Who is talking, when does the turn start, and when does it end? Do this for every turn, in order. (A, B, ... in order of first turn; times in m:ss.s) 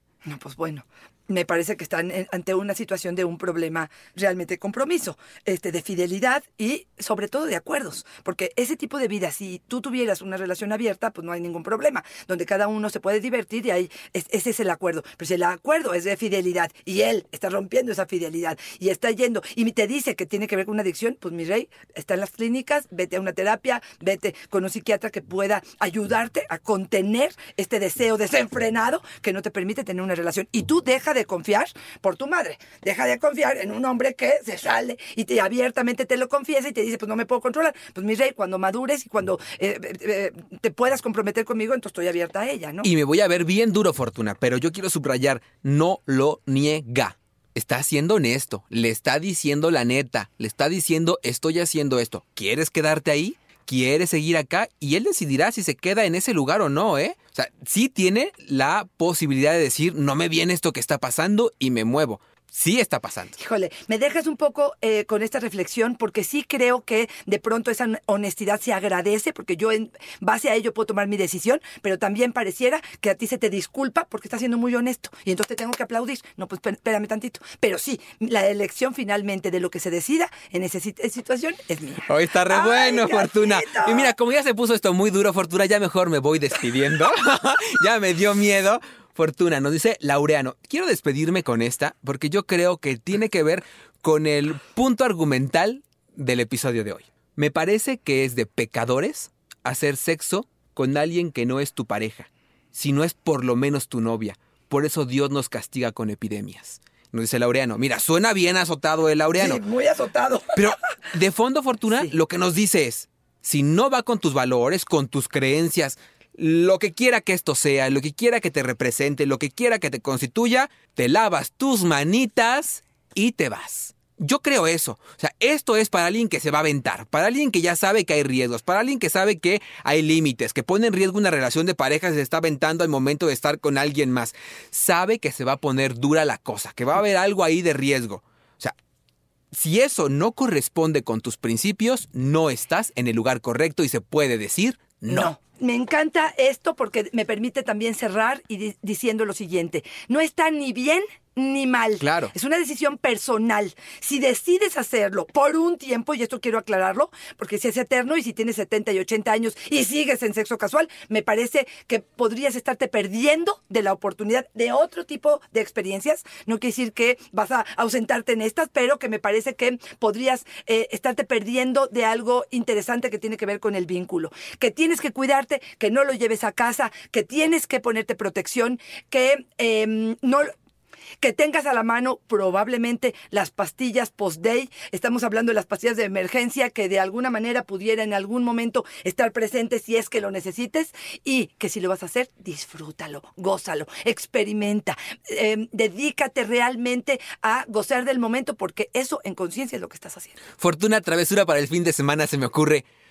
0:00.2-0:42.9 A
0:42.8-1:03.4 B
1:03.4-1:24.1 A
1:22.1-1:49.6 B
1:49.3-1:50.7 A
1:50.6-2:18.8 B
2:19.5-2:25.3 B
2:25.1-3:00.5 A
2:32.0-2:32.3 B
3:01.2-3:20.4 A
3:20.6-3:22.9 B